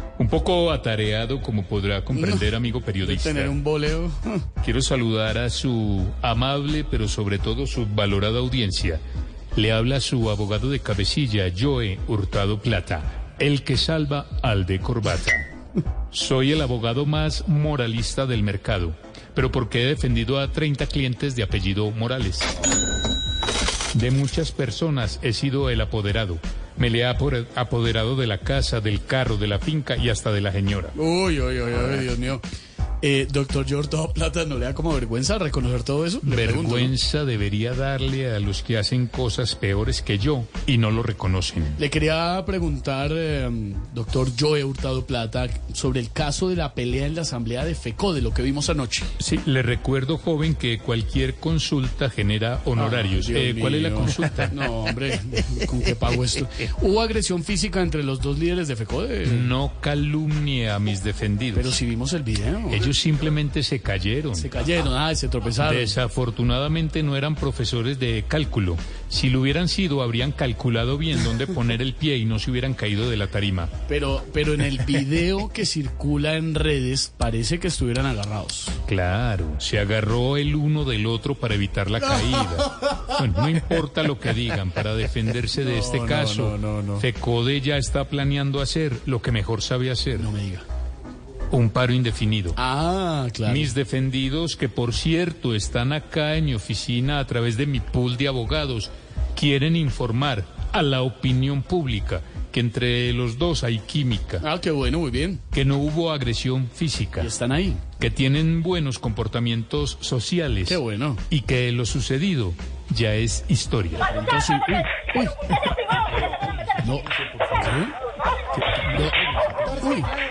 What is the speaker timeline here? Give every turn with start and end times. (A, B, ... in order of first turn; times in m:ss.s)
0:00.2-0:03.6 A
0:02.1-0:02.5 B
0:03.0-0:04.5 B
0:04.6-0:09.0 A
0:09.6-0:15.5 A
0:16.1-0:22.5 A
0:23.9-0:31.0 A
0:31.0-0:32.4 B
0:33.0-0:36.9 B
0:36.2-0:41.8 A
0:41.8-0:49.1 B
0:49.2-0:54.6 A
0:52.8-0:59.5 B
0:59.2-1:01.8 A
1:01.5-1:02.9 B
1:02.7-1:04.5 A
1:04.3-1:06.0 B
1:05.6-1:13.7 A
1:13.9-1:18.8 B
1:18.9-1:30.3 A
1:25.6-1:27.0 B
1:30.2-1:30.6 B
1:31.5-1:32.6 A
1:32.6-1:33.7 B
1:33.5-1:44.4 A
1:44.4-1:45.4 B
1:45.5-1:47.3 A
1:47.2-1:47.9 B
1:48.0-1:54.1 A
1:50.7-1:51.2 B
1:54.0-1:55.4 B
1:56.2-1:57.8 A
1:56.8-1:58.0 B
1:58.6-1:59.9 A
1:59.8-2:00.1 B